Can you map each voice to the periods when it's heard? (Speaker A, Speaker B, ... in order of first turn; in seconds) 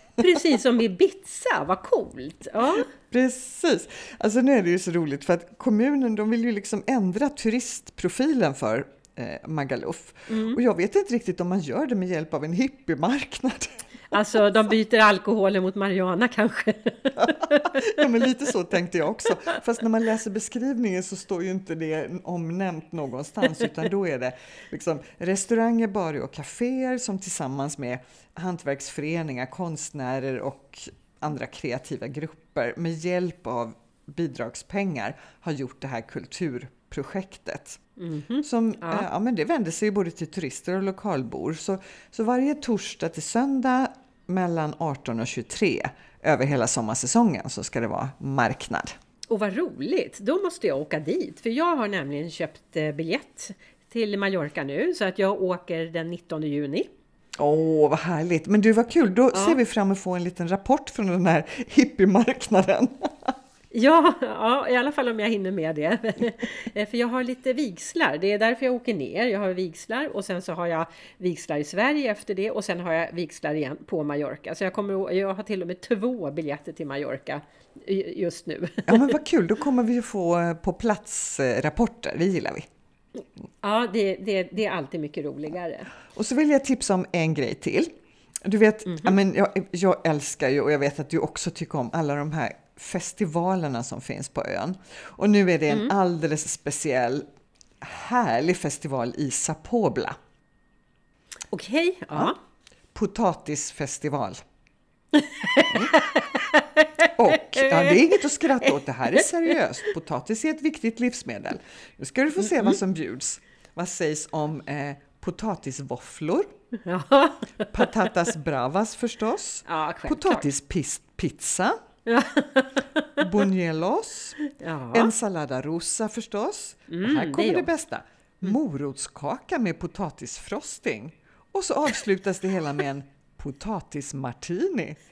Speaker A: 0.2-2.9, 10.3-10.6, 14.1-17.9, 38.0-39.1, 49.3-56.9, 59.3-59.6, 63.7-79.1, 83.6-85.9, 88.9-89.1, 101.5-102.4, 105.1-109.2, 112.5-112.8, 116.8-117.9, 119.7-120.5, 122.0-123.2, 124.4-125.1, 126.9-127.7
Speaker B: 2.9-13.8, 17.2-37.8, 38.4-49.0, 57.4-63.3, 78.9-82.7, 86.1-97.2, 97.8-100.2, 102.9-104.4, 107.1-116.5, 117.7-121.8, 123.2-124.4, 124.9-135.0